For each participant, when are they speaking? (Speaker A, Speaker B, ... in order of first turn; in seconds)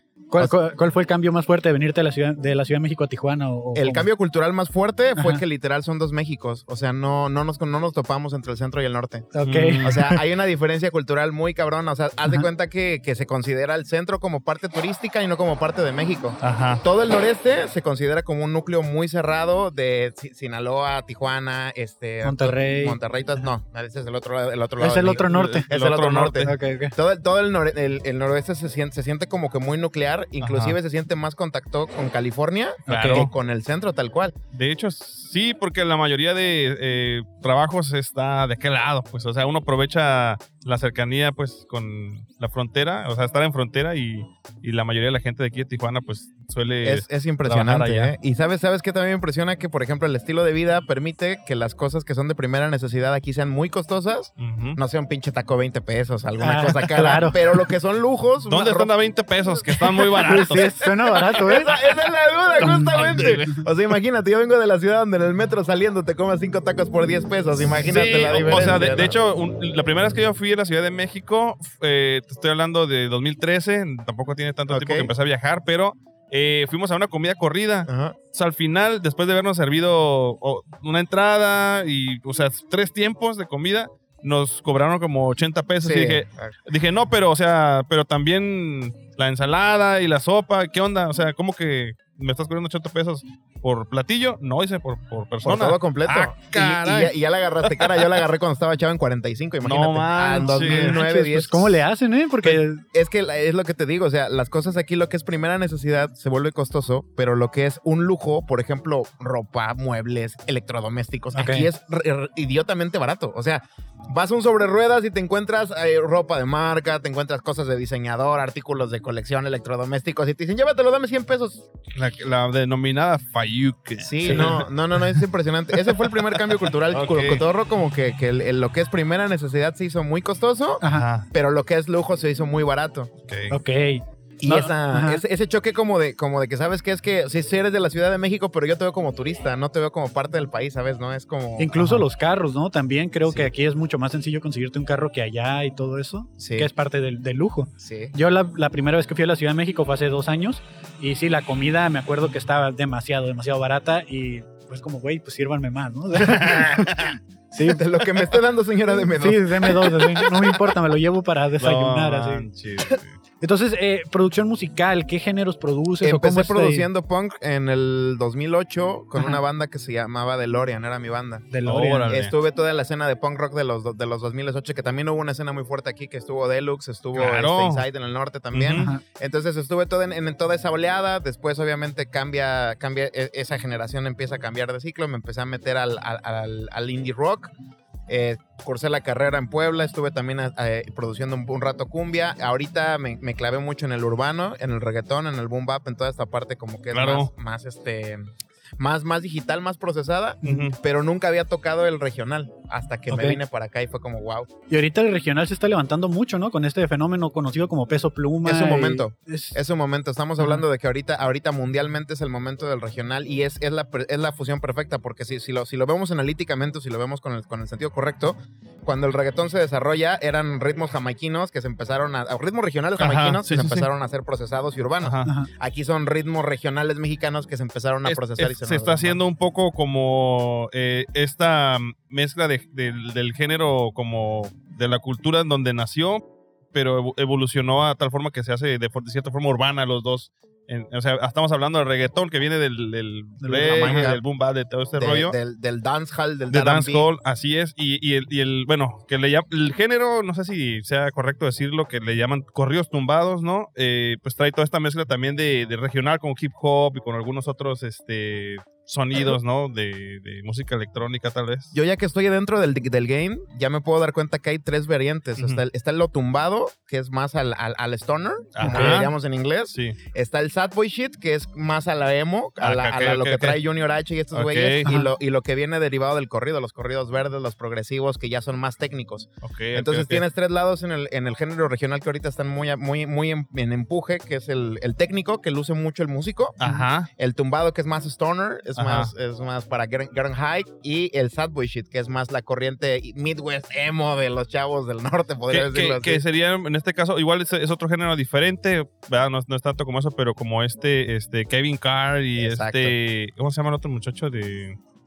Speaker A: 0.3-4.1, 5.2-5.4, 9.3-10.2, 22.2-23.0, 24.8-25.7, 26.4-26.9, 32.9-33.3, 56.4-57.4, 60.2-61.8, 62.6-63.6, 100.4-102.8, 111.3-111.7, 124.2-124.5, 130.8-131.1, 133.5-135.2, 141.6-157.8, 158.9-162.5, 163.4-166.9, 171.5-172.2, 178.7-179.0, 200.4-200.7, 203.1-203.4, 204.7-209.6, 243.4-244.1, 268.6-269.0, 274.9-275.1
Speaker B: 3.8-9.3, 9.8-34.4, 46.8-58.9, 60.3-60.7, 61.3-69.2, 74.7-75.1, 77.9-78.2, 85.8-86.5, 95.4-101.8, 102.4-121.7, 124.0-133.1, 134.4-141.9, 146.4-146.7, 147.8-148.1, 157.7-160.6, 166.0-171.5, 172.1-187.5, 188.1-204.5, 208.4-229.2, 243.7-244.2, 245.0-247.1, 261.7-286.6, 287.2-296.2, 302.4-302.9
Speaker C: 9.4-9.9, 16.4-16.8, 25.3-26.5, 30.4-30.8, 32.9-33.3, 34.5-48.1, 54.4-54.8, 58.5-60.7, 62.6-63.5, 67.8-98.2, 99.6-101.0, 122.0-124.7, 125.7-127.4, 130.9-131.3, 133.3-133.6, 156.2-157.1, 161.6-163.1, 171.6-172.3, 177.1-177.8, 178.5-178.9, 196.9-197.3, 200.4-200.8, 223.0-223.9, 225.0-225.3, 228.1-245.4, 246.5-261.7, 268.6-269.1, 269.7-270.0, 272.6-273.6, 274.3-274.9, 279.4-280.2, 286.6-287.1, 288.8-289.1, 295.5-304.8